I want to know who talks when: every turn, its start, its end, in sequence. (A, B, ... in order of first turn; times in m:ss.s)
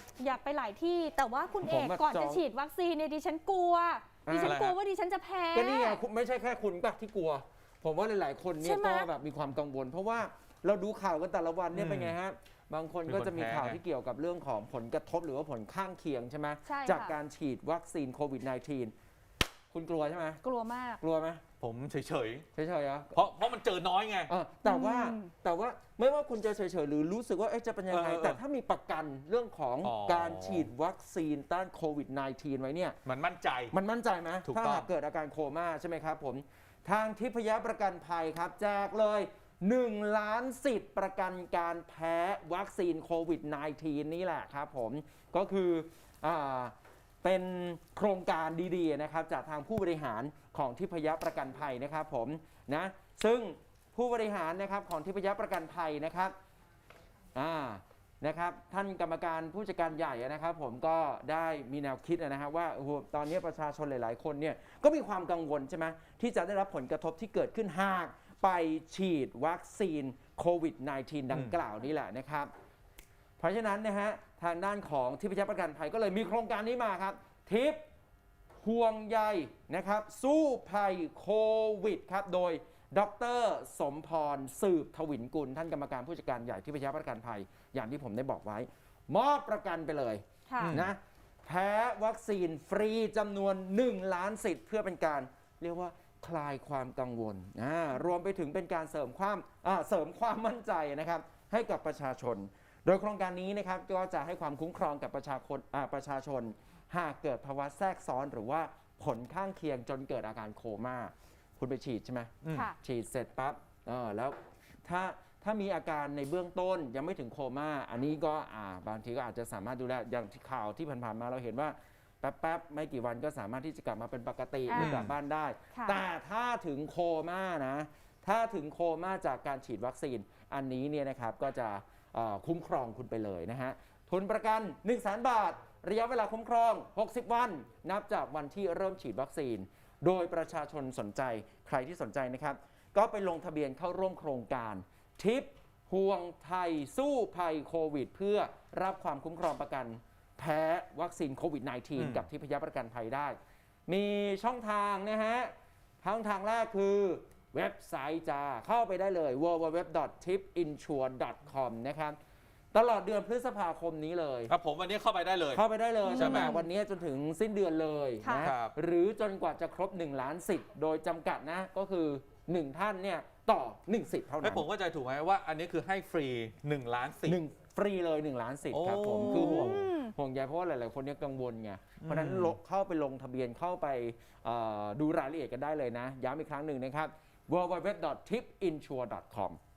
0:00.2-0:06.0 A
0:01.6-0:02.4 B
0:04.2-0:04.6 B
0:04.4-0:04.8 C
0:05.5-0:18.9 B
0:08.6-0:09.1 A
0:11.7-0:12.2 C
0:13.0-0:13.8 C
0:16.6-0:17.2 A
0:19.7-0:20.4 B
0:20.4-0:21.0 A
0:21.0-0:21.4 B
0:21.6-0:22.5 C
0:22.5-0:23.2 B
0:23.1-0:24.3 C
0:24.3-0:33.0 B
0:24.6-0:25.3 A
0:27.9-0:28.4 C
0:29.8-0:30.7 C
0:33.0-0:33.8 C
0:33.7-0:56.3 B
0:34.4-0:34.9 C
0:57.3-1:12.5 B
1:11.3-1:11.6 C
1:13.4-1:17.8 B
1:18.6-2:42.2 B
1:30.5-1:30.8 A
1:30.6-1:30.9 C
1:52.4-1:52.7 C
1:52.5-1:52.8 A
2:04.7-2:05.0 A
2:04.8-2:05.1 C
2:05.7-2:06.0 A
2:32.0-2:32.3 C
2:42.7-2:44.5 B
2:44.5-2:45.6 C
2:45.5-2:54.7 B
2:46.0-2:46.7 A
2:46.1-2:46.5 C
2:48.2-2:48.5 A
2:48.4-2:48.7 C
2:54.4-2:57.4 C
2:57.2-3:09.6 B
2:58.7-2:59.8 C
2:59.1-3:00.1 A
3:02.0-3:02.6 C